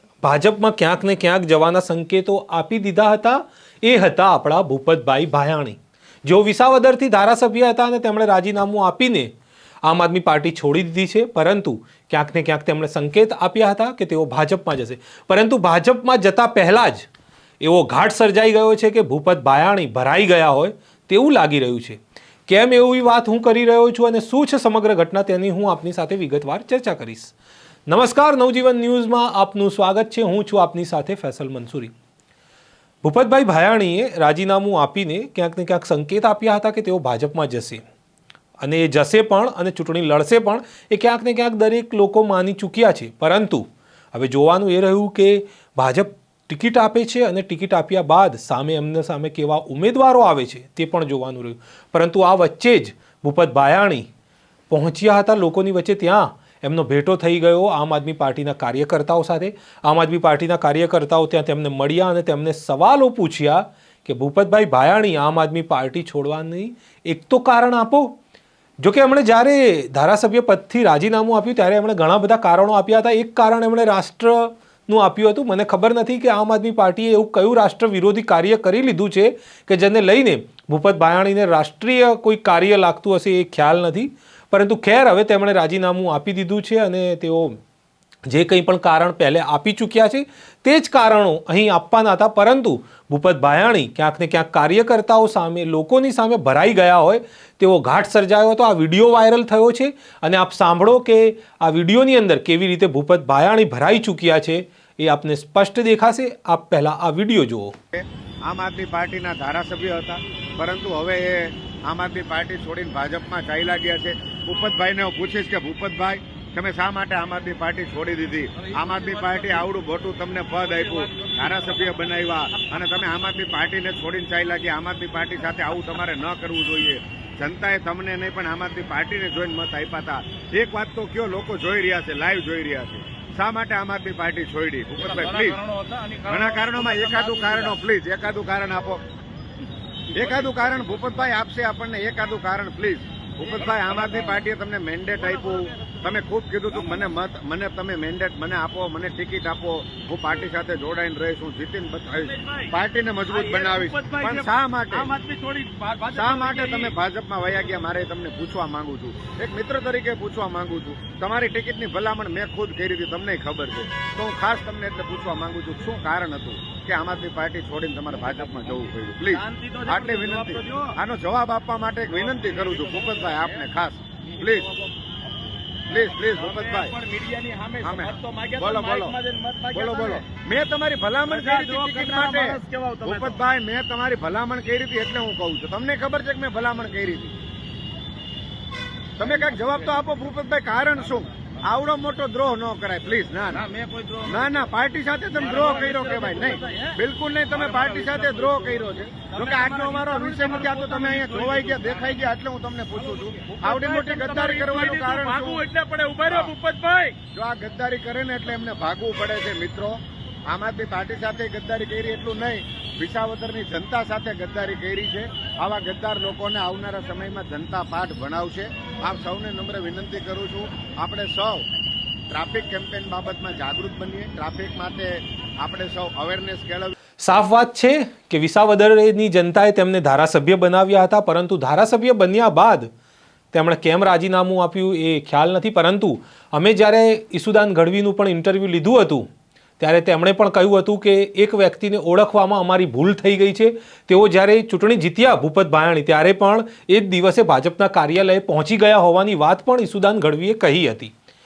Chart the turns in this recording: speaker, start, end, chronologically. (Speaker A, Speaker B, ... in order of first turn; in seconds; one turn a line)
Speaker A: 0.2-9.3
Speaker A: 9.8-17.1
Speaker A: 17.6-27.3
Speaker A: 27.9-31.9
Speaker A: 33.0-37.8
Speaker A: 38.6-54.1
Speaker A: 54.7-68.2
Speaker A: 68.8-87.6
Speaker A: 88.3-107.8
Speaker B: 107.9-135.6
Speaker C: 120.9-121.3
Speaker C: 135.0-137.7
Speaker B: 136.2-139.0
Speaker B: 140.1-155.1
Speaker C: 140.2-140.6
Speaker C: 143.6-144.3
Speaker C: 152.3-152.7
Speaker C: 153.3-156.9
Speaker B: 156.2-174.7
Speaker C: 169.3-171.0
Speaker C: 172.3-173.5
Speaker C: 174.4-174.9
Speaker B: 175.9-176.9
Speaker C: 176.2-180.2
Speaker B: 177.8-179.2
Speaker B: 179.7-187.4
Speaker C: 181.3-183.4
Speaker B: 189.2-193.7
Speaker C: 193.5-194.6
Speaker B: 194.2-205.7
Speaker C: 195.4-197.0
Speaker C: 197.6-202.1
Speaker C: 203.3-207.2
Speaker B: 207.3-210.0
Speaker B: 210.5-221.7
Speaker B: 222.3-226.9
Speaker A: 227.2-232.9
Speaker A: 233.5-239.3
Speaker A: 239.8-251.1